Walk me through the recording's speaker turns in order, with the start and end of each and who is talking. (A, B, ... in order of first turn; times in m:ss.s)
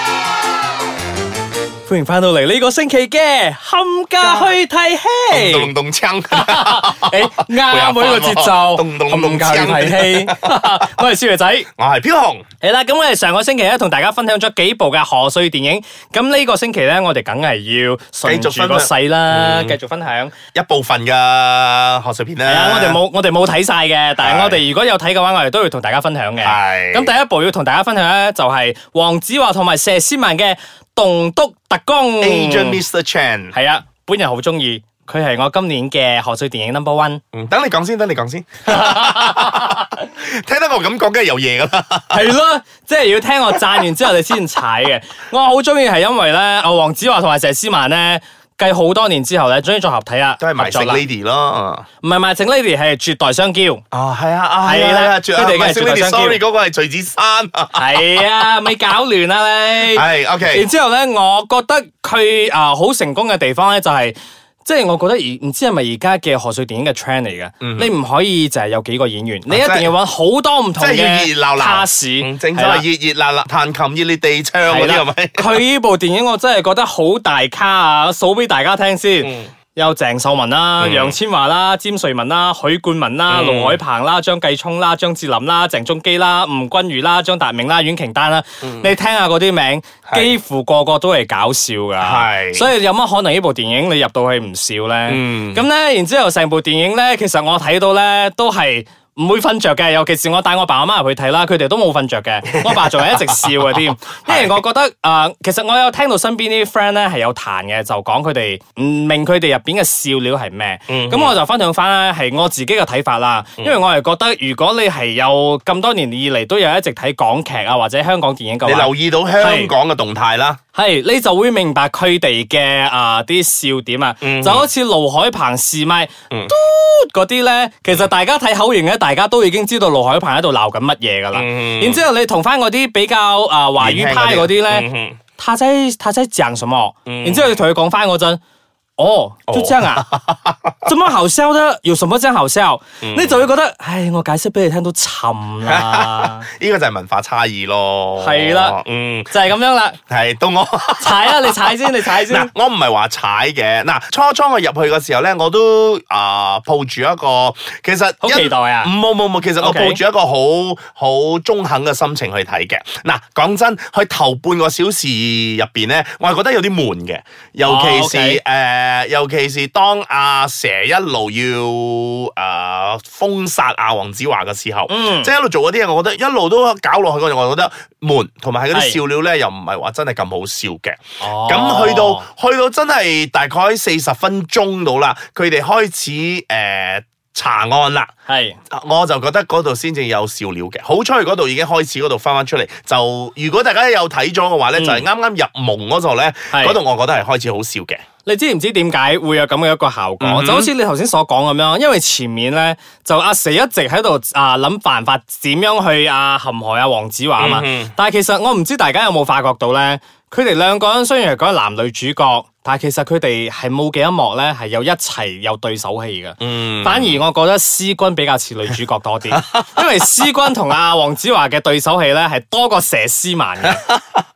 0:01.9-0:05.7 A
0:04.2-0:04.5 B
0:05.3-0:11.0 B
0:06.3-0:11.7 A
0:11.8-0:12.4 B
0:12.6-0:20.3 A
0:18.2-0:19.8 B
0:20.5-0:23.0 B
0:22.4-0:32.8 A
0:24.2-0:24.6 B
0:26.4-0:27.1 B
0:32.2-0:33.6 B
0:33.5-0:37.2 A
0:37.3-0:42.3 B
0:38.6-0:39.8 A
0:42.1-0:51.0 A
0:50.4-0:51.8 B
0:52.0-0:53.8 A
0:53.9-0:58.2 B
0:54.6-0:56.4 A
0:57.7-1:12.8 A
0:59.8-1:00.7 B
1:07.6-1:07.9 B
1:09.5-1:09.9 B
1:10.8-1:15.6 B
1:14.6-1:59.7 A
1:19.2-1:19.5 B
1:20.8-1:21.2 B
1:23.3-1:23.8 B
1:28.6-1:28.9 B
1:30.1-1:30.4 B
1:32.0-1:32.7 B
1:35.1-1:35.7 B
1:42.4-1:44.6 B
1:50.9-1:51.4 B
1:58.6-2:00.6 B
2:00.7-2:18.4 A
2:04.2-2:04.7 B
2:11.3-2:12.0 B
2:13.8-2:15.2 B
2:17.0-2:17.6 B
2:19.0-2:20.0 A
2:19.5-2:20.9 B
2:20.8-2:26.4 A
2:23.0-2:23.5 B
2:25.6-2:29.3 B
2:28.2-2:28.8 A
2:29.3-2:30.0 A
2:30.1-3:08.1 B
2:31.0-2:32.5 A
2:38.2-2:38.9 A
2:39.6-2:40.0 A
2:47.6-2:48.4 A
2:54.9-2:55.3 A
2:58.7-2:59.0 A
3:01.2-3:02.3 A
3:08.3-3:08.6 A
3:08.7-3:18.0 B
3:14.7-3:15.0 A
3:16.5-3:16.8 A
3:18.2-3:43.8 A
3:20.2-3:20.7 B
3:27.4-3:27.9 B
3:36.4-3:37.2 B
3:39.3-3:39.6 B
3:43.6-3:44.2 B